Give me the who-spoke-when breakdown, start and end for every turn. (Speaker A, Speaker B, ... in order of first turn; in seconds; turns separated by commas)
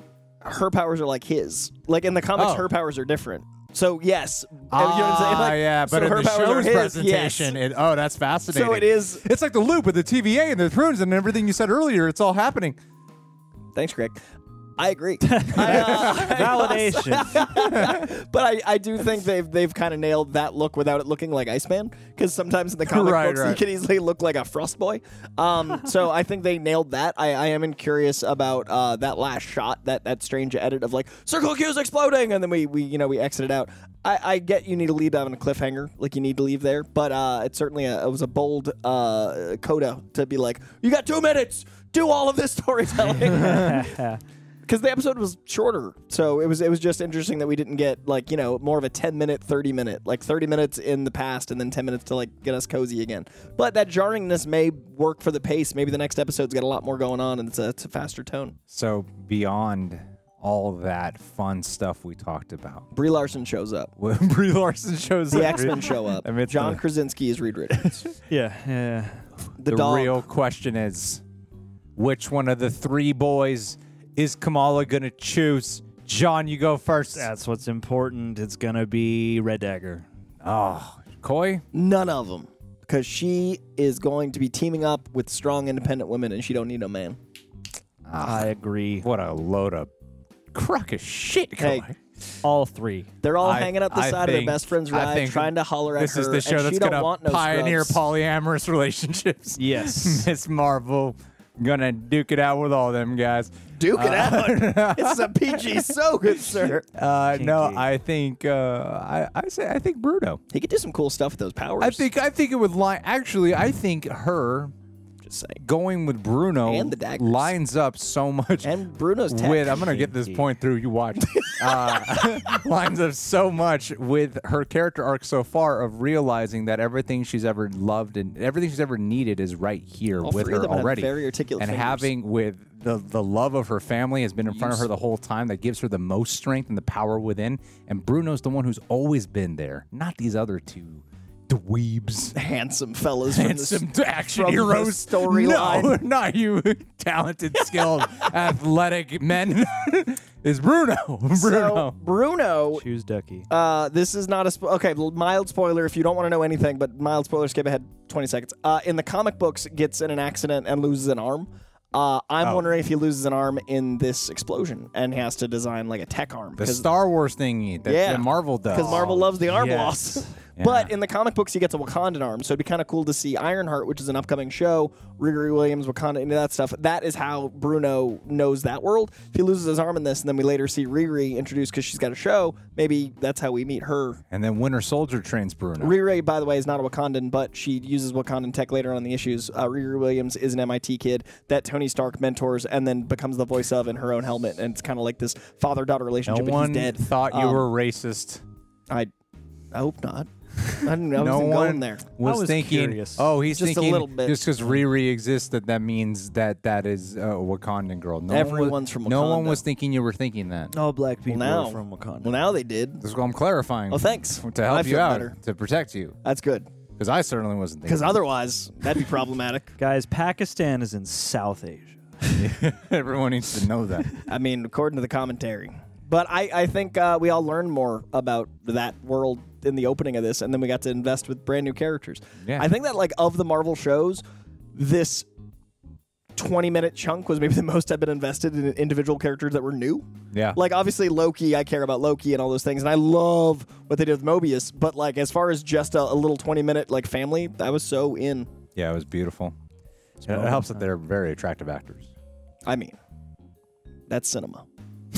Speaker A: 0.4-7.6, Speaker B: 2.3-2.7, Speaker B: 4.7-12.8, Speaker A: 8.5-9.2, Speaker A: 13.7-14.2, Speaker A: 14.8-44.0, Speaker C: 15.2-17.5, Speaker B: 15.5-16.8, Speaker B: 17.5-18.1, Speaker B: 22.9-23.6, Speaker C: 43.2-44.2, Speaker A: 44.6-58.6, Speaker B: 58.7-62.9, Speaker A: 62.9-63.9, Speaker B: 64.0-66.8, Speaker A: 65.3-68.0, Speaker C: 68.3-69.2, Speaker A: 69.6-70.2, Speaker B: 69.6-71.2, Speaker B: 72.0-77.3, Speaker C: 77.1-80.0, Speaker B: 80.4-81.6, Speaker A: 81.7-87.2, Speaker B: 88.1-89.9, Speaker C: 88.2-89.0, Speaker B: 90.5-92.0, Speaker A: 91.6-91.9, Speaker C: 92.4-93.1, Speaker A: 93.2-98.0, Speaker B: 93.4-110.4, Speaker C: 99.6-100.3, Speaker A: 103.8-106.8, Speaker C: 107.3-107.8, Speaker A: 110.5-112.1, Speaker B: 111.8-114.7, Speaker A: 115.2-115.6, Speaker B: 115.6-118.8, Speaker A: 116.6-117.5, Speaker A: 118.6-120.0, Speaker B: 119.3-142.3, Speaker C: 119.8-120.4, Speaker A: 121.3-122.5, Speaker A: 130.2-132.1, Speaker A: 134.5-134.9, Speaker A: 142.3-146.0, Speaker B: 143.3-151.9, Speaker A: 147.6-148.3, Speaker A: 151.3-152.8, Speaker C: 152.7-153.5, Speaker A: 153.5-166.9, Speaker B: 162.4-162.7, Speaker B: 166.6-169.4, Speaker A: 167.8-184.2, Speaker C: 168.7-170.3, Speaker B: 170.6-170.9, Speaker B: 184.3-186.0, Speaker A: 185.8-197.7, Speaker B: 196.2-198.4, Speaker A: 199.7-202.1, Speaker B: 201.1-210.7, Speaker C: 202.2-203.3, Speaker A: 203.5-204.5, Speaker A: 208.3-209.6, Speaker C: 210.7-212.4, Speaker A: 211.3-213.0, Speaker B: 213.0-216.2, Speaker A: 213.9-215.3, Speaker A: 216.2-216.7, Speaker B: 217.0-218.2, Speaker A: 217.8-219.7, Speaker C: 219.8-222.5, Speaker B: 222.3-224.2, Speaker A: 224.2-234.2, Speaker B: 232.4-232.7, Speaker A: 234.7-235.3, Speaker A: 236.3-248.5, Speaker B: 240.3-240.6, Speaker B: 248.7-249.5, Speaker B: 250.2-252.1, Speaker C: 250.2-250.8, Speaker A: 252.6-253.0, Speaker A: 254.1-254.7